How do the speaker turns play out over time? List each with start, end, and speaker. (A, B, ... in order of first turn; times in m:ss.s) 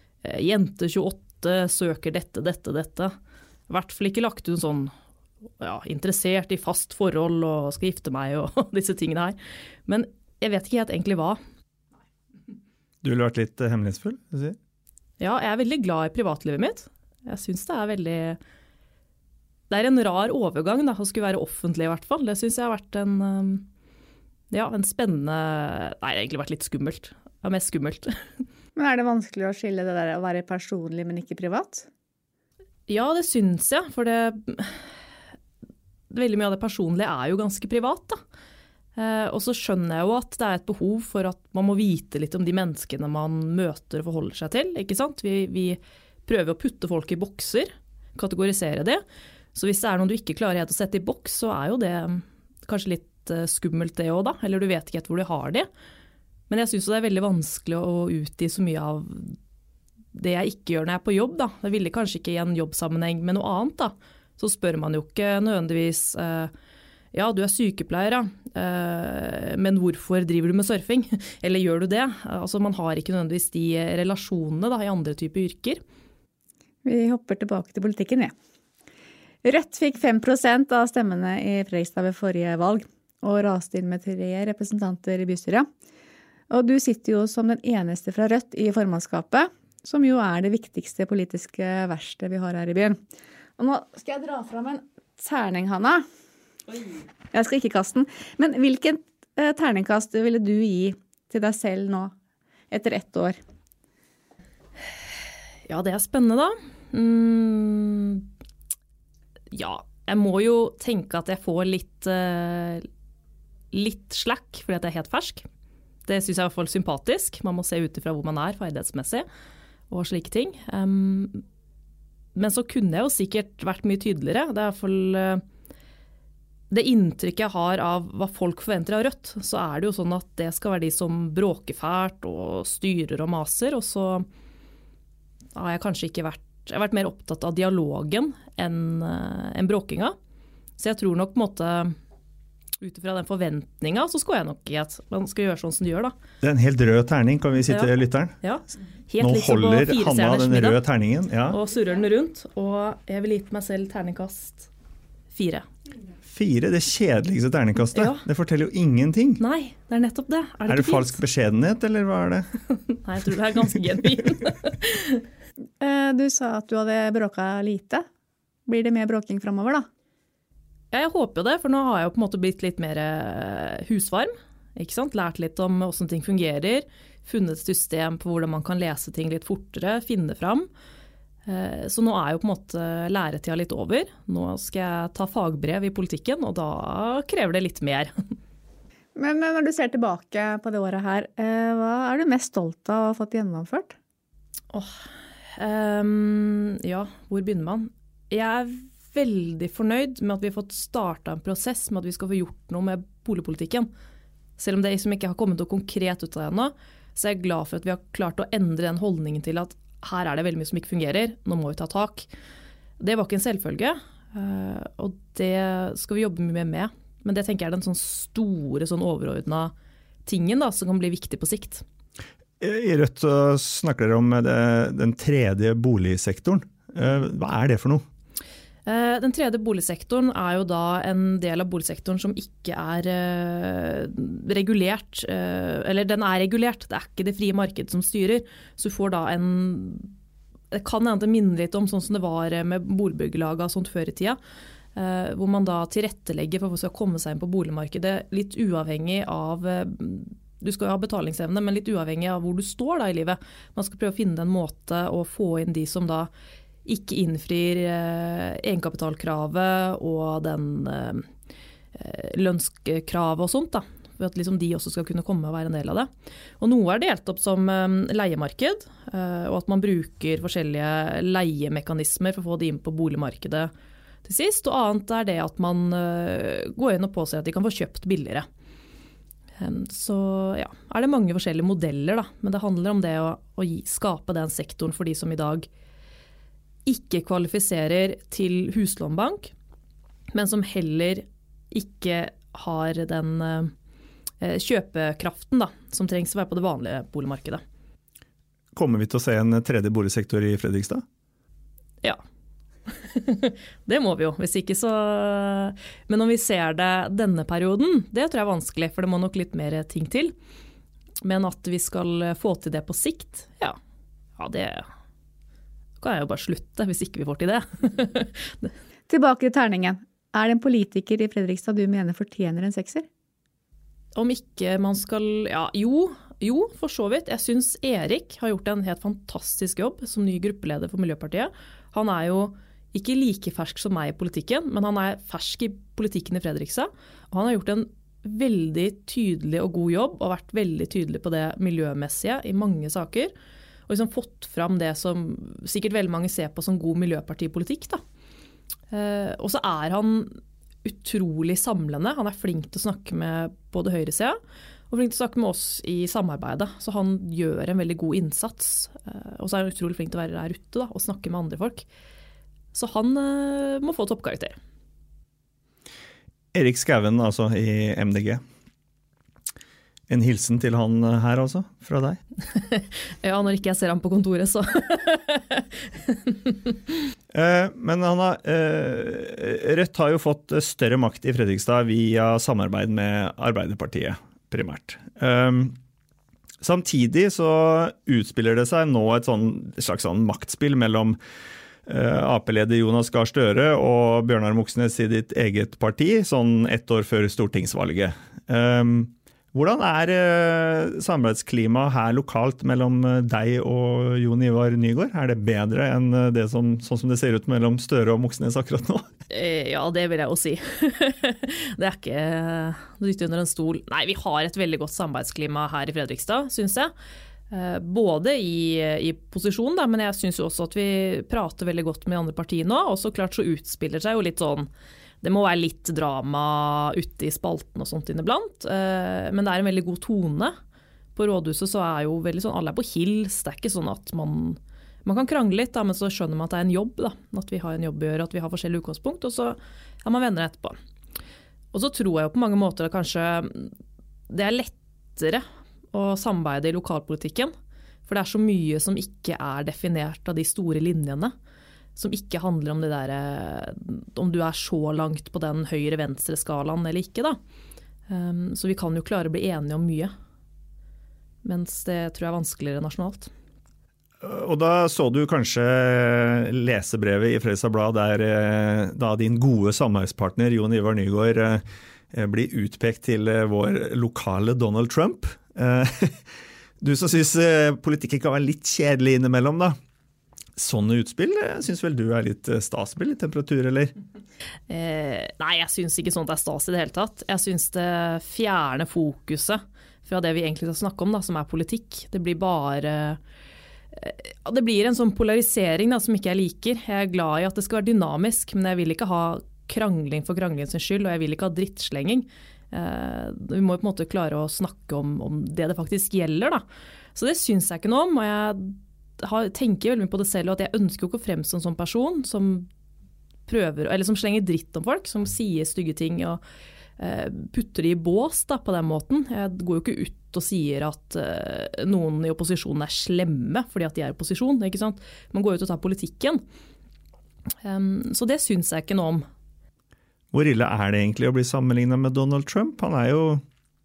0:00.2-0:03.1 A
0:03.7-0:04.9 A
0:05.6-0:11.4 A
0:13.0-0:14.6 B
0:15.2-0:18.4 A
0:19.7-0:23.6 A
0:24.5-0:28.2 A
0:28.8-0:31.9 C
0:32.9-0:34.8 A
0:36.1-0:38.2 A
0:39.0-0:49.0 A
0:49.5-0:55.7 A
0:56.5-0:59.4 A
1:00.1-1:06.5 A
1:07.1-1:15.8 A
1:16.8-1:18.3 C
1:19.4-1:25.7 C
1:26.5-1:33.0 C
1:33.6-1:36.0 C
1:37.3-1:42.1 C
1:42.7-1:43.4 C
1:45.7-1:48.3 A
1:49.5-1:52.9 A
1:53.7-1:55.5 A
1:56.1-1:59.2 A
1:59.9-2:01.4 A
2:02.4-2:05.4 A
2:06.7-2:14.3 A
2:15.6-2:20.2 A
2:20.8-2:22.0 A
2:22.8-2:26.1 A
2:26.4-2:28.4 B
2:28.4-2:30.8 A
2:29.2-2:31.6 B
2:31.5-2:34.7 A
2:35.3-2:35.7 A
2:36.3-2:39.4 B
2:37.9-2:38.2 A
2:39.4-2:41.2 A
2:40.7-2:42.5 B
2:43.0-2:45.2 A
2:45.8-2:48.1 C
2:48.7-2:49.9 C
2:50.9-3:00.7 A
3:01.5-3:08.1 A
3:09.2-3:14.0 C
3:14.7-3:15.0 A
3:15.6-3:23.9 A
3:24.6-3:32.3 A
3:33.0-3:39.7 A
3:40.3-3:41.8 A
3:42.6-3:48.0 B
3:48.9-4:00.1 A
4:00.7-4:04.4 A
4:05.0-4:16.3 A
4:16.8-4:21.3 A
4:22.0-4:26.1 A
4:26.6-4:33.7 A
4:34.2-4:38.5 A
4:39.6-4:45.7 A
4:46.9-4:49.5 A
4:50.3-4:53.7 A
4:54.4-4:57.6 A
4:58.7-5:01.0 B
5:02.9-5:10.3 A
5:11.2-5:13.8 A
5:14.4-5:14.9 A
5:16.0-5:18.7 A
5:19.1-5:23.1 C
5:24.2-5:43.3 A
5:43.9-5:48.0 A
5:48.9-5:54.4 A
5:54.9-6:01.8 A
6:02.7-6:04.6 A
6:06.5-6:08.4 B
6:10.1-6:12.2 B
6:12.5-6:16.8 A
6:17.3-6:25.8 B
6:26.6-6:31.2 B
6:31.9-6:49.1 B
6:49.3-6:56.9 A
6:57.5-7:04.7 A
7:05.2-7:10.6 A
7:11.2-7:20.8 A
7:21.7-7:23.7 A
7:24.3-7:27.5 A
7:28.1-7:31.3 A
7:32.0-7:37.4 A
7:38.1-7:40.1 A
7:41.4-7:43.3 A
7:44.2-7:56.2 B
7:56.8-7:59.8 B
8:00.6-8:03.9 B
8:04.7-8:13.2 A
8:13.9-8:26.6 A
8:27.2-8:32.7 A
8:33.5-8:36.4 A
8:37.0-8:46.4 A
8:47.6-8:49.2 A
8:50.3-8:53.4 B